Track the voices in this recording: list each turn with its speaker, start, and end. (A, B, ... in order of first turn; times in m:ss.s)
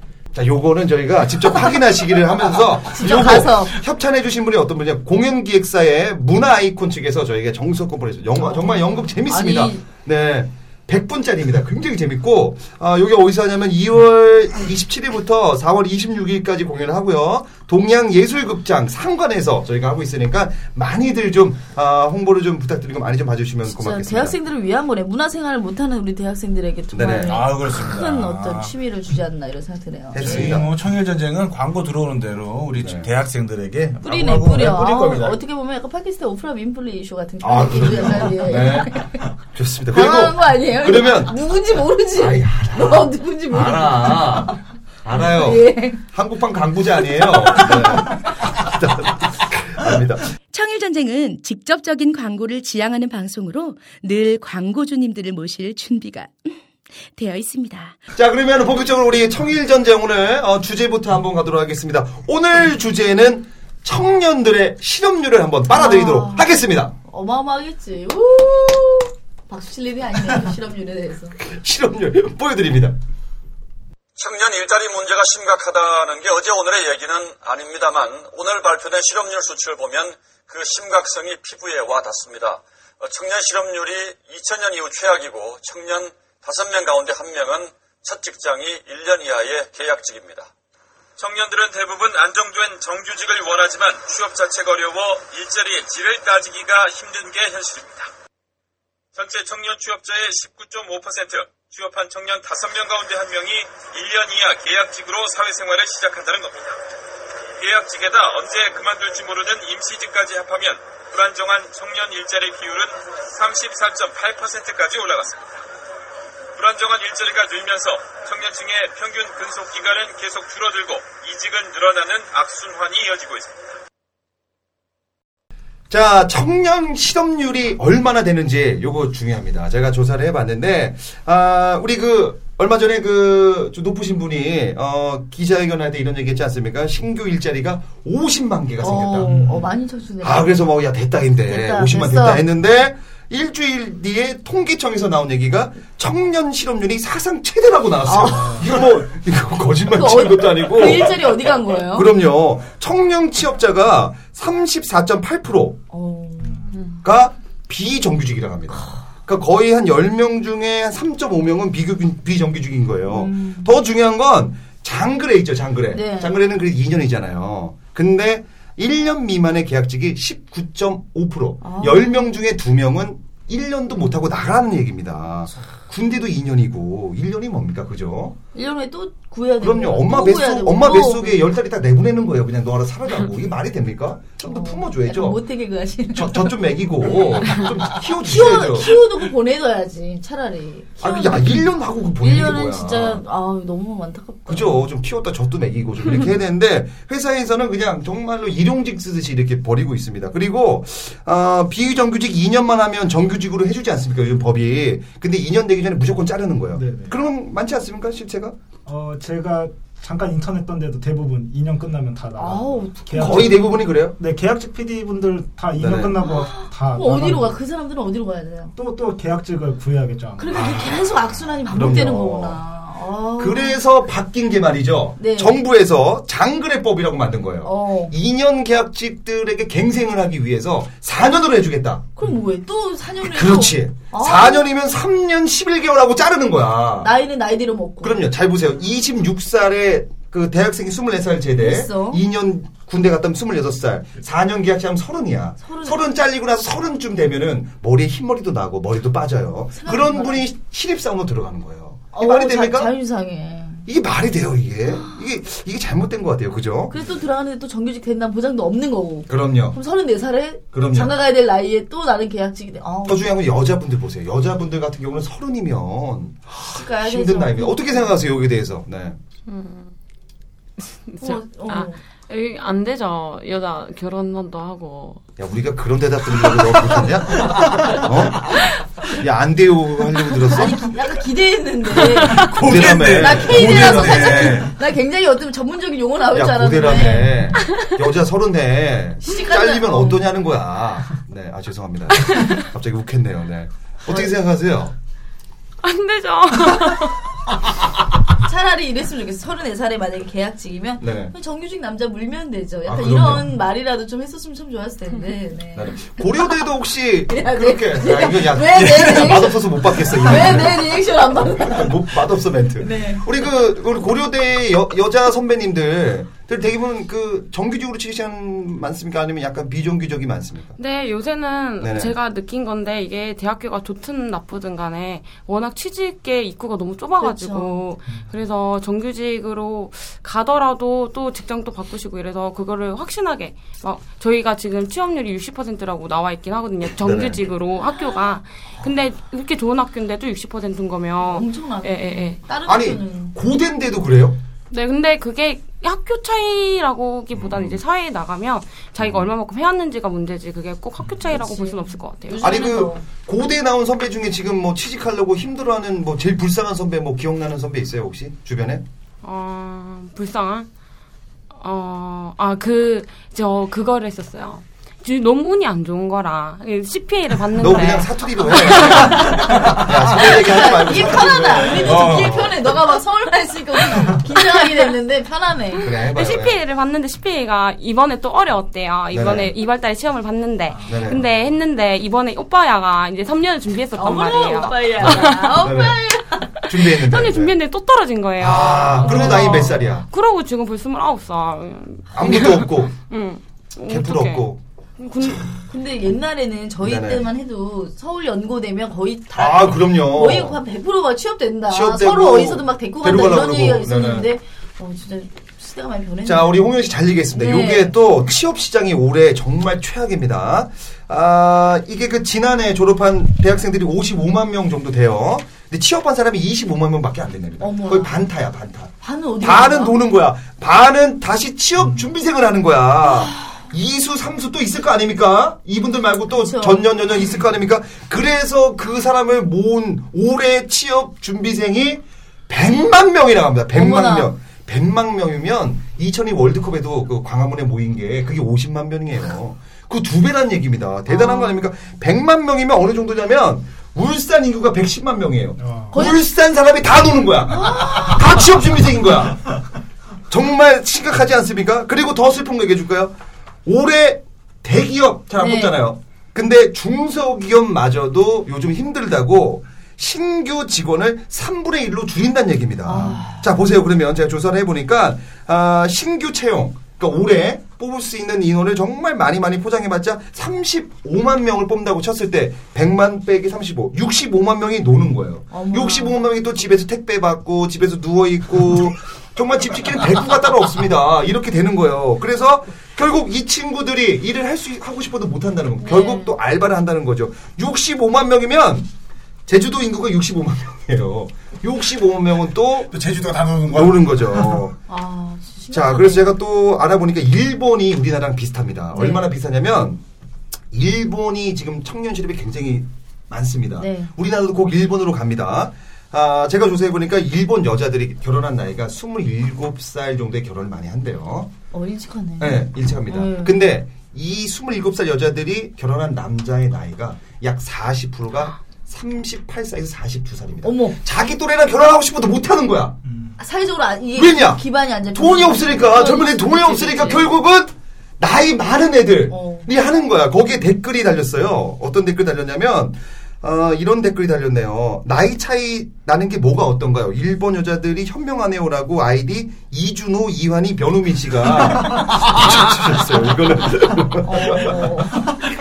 0:00.3-0:24.4 A
0:02.9-0:03.8 B
0:08.4-0:09.8 B
0:23.6-0:30.5 B
0:26.9-0:27.4 A
0:27.2-0:28.7 C
0:30.1-0:30.7 A
0:30.2-0:35.3 C
0:32.8-0:33.1 A
0:34.0-0:39.2 B
0:34.6-0:35.3 A
0:37.4-0:39.0 A
0:39.5-0:41.3 A
0:39.9-0:44.6 B
0:42.1-0:50.3 A
0:45.2-0:46.0 B
0:50.5-0:56.6 D
0:57.1-0:58.0 D
0:58.1-1:06.9 A
1:05.7-1:11.3 B
1:11.4-1:12.9 A
1:14.2-1:30.5 E
1:31.2-1:38.1 E
1:39.1-1:46.8 E
1:47.6-1:55.4 E
1:56.5-2:03.7 E
2:05.9-2:19.6 A
2:18.8-2:20.6 B
2:19.3-2:19.6 F
2:20.2-2:35.8 A
2:21.4-2:22.4 B
2:28.0-2:28.7 B
2:29.9-2:32.1 B
2:35.9-2:36.7 B
2:37.0-2:58.4 A
2:43.1-2:43.7 B
2:45.9-2:46.3 B
2:51.6-2:52.4 B
2:58.5-3:01.4 B
2:59.6-3:05.4 A
3:04.4-3:11.6 B
3:06.1-3:09.0 A
3:11.0-3:13.2 A
3:12.2-3:14.8 B
3:14.5-3:28.6 A
3:26.7-3:27.1 F
3:28.8-3:37.6 F
3:32.4-3:33.8 B
3:33.1-3:34.2 A
3:35.8-3:36.2 A
3:36.2-3:38.7 B
3:38.8-3:40.7 F
3:40.4-3:43.8 B
3:40.5-3:42.6 A
3:43.4-3:52.1 A
3:45.2-3:45.6 B
3:47.6-3:48.1 B
3:52.2-3:54.7 B
3:53.2-3:57.1 A
3:57.0-3:58.2 B
3:58.0-4:12.9 A
4:01.6-4:02.2 B
4:05.6-4:06.0 B
4:09.7-4:10.4 B
4:12.1-4:13.8 B
4:13.8-4:17.0 A
4:14.9-4:15.2 B
4:16.9-4:23.2 B
4:19.3-4:19.8 A
4:20.7-4:21.1 A
4:23.0-4:29.2 A
4:26.6-4:28.1 B
4:29.5-4:29.9 G
4:30.8-4:35.2 G
4:31.2-4:32.0 B
4:35.4-4:38.6 A
4:39.1-4:40.9 A
4:40.5-4:47.6 B
4:42.0-4:44.7 C
4:42.5-4:44.5 A
4:46.3-4:54.9 A
4:49.2-4:50.3 B
4:55.8-4:57.2 G
4:58.4-5:06.6 B
5:01.0-5:01.3 A
5:02.8-5:03.5 A
5:05.7-5:20.8 A
5:07.3-5:12.1 B
5:12.8-5:13.2 B
5:20.8-5:42.4 G
5:21.8-5:22.1 A
5:27.2-5:27.8 B
5:37.0-5:37.4 A
5:41.2-5:43.3 B
5:42.6-5:44.4 A
5:44.7-5:52.6 G
5:47.3-5:47.8 A
5:49.0-5:49.2 A
5:51.3-5:53.0 B
5:52.4-5:58.8 A
5:59.2-6:00.7 G
6:01.5-6:09.4 G
6:07.6-6:12.6 A
6:10.1-6:15.8 B
6:11.8-6:12.5 C
6:15.8-6:16.6 A
6:15.9-6:25.7 G
6:19.1-6:19.5 A
6:20.8-6:21.2 A
6:24.0-6:26.6 B
6:25.0-6:26.0 A
6:26.6-6:27.5 A
6:26.7-6:35.6 G
6:28.4-6:30.0 A
6:29.0-6:29.7 B
6:32.1-6:32.9 A
6:33.8-6:34.6 A
6:35.7-6:46.6 B
6:36.8-6:37.3 A
6:39.3-6:40.6 A
6:41.7-6:44.3 A
6:46.2-7:29.6 A
6:47.3-6:47.9 B
6:57.6-6:58.2 B
6:59.0-7:00.0 B
7:03.3-7:03.6 B
7:06.3-7:06.9 B
7:13.7-7:14.3 B
7:21.1-7:21.6 B
7:25.6-7:25.9 F
7:25.9-7:26.2 B
7:27.5-7:28.2 B
7:30.3-8:08.9 A
7:35.4-7:35.7 B
7:42.8-7:43.5 B
7:55.5-7:56.2 B
8:05.8-8:06.3 B
8:09.5-8:13.0 A
8:12.9-8:14.6 C
8:13.7-8:14.8 A
8:14.9-8:16.4 B
8:15.7-8:20.0 A
8:18.9-8:19.3 B
8:20.7-8:31.5 A
8:23.8-8:24.1 B
8:31.7-8:33.6 B
8:32.4-8:43.0 A
8:40.6-8:41.0 B
8:43.1-8:43.3 F
8:43.4-8:47.3 B
8:44.1-8:44.6 A
8:45.1-9:04.8 A
8:49.3-8:49.7 B
9:02.1-9:02.6 C
9:04.2-9:05.4 B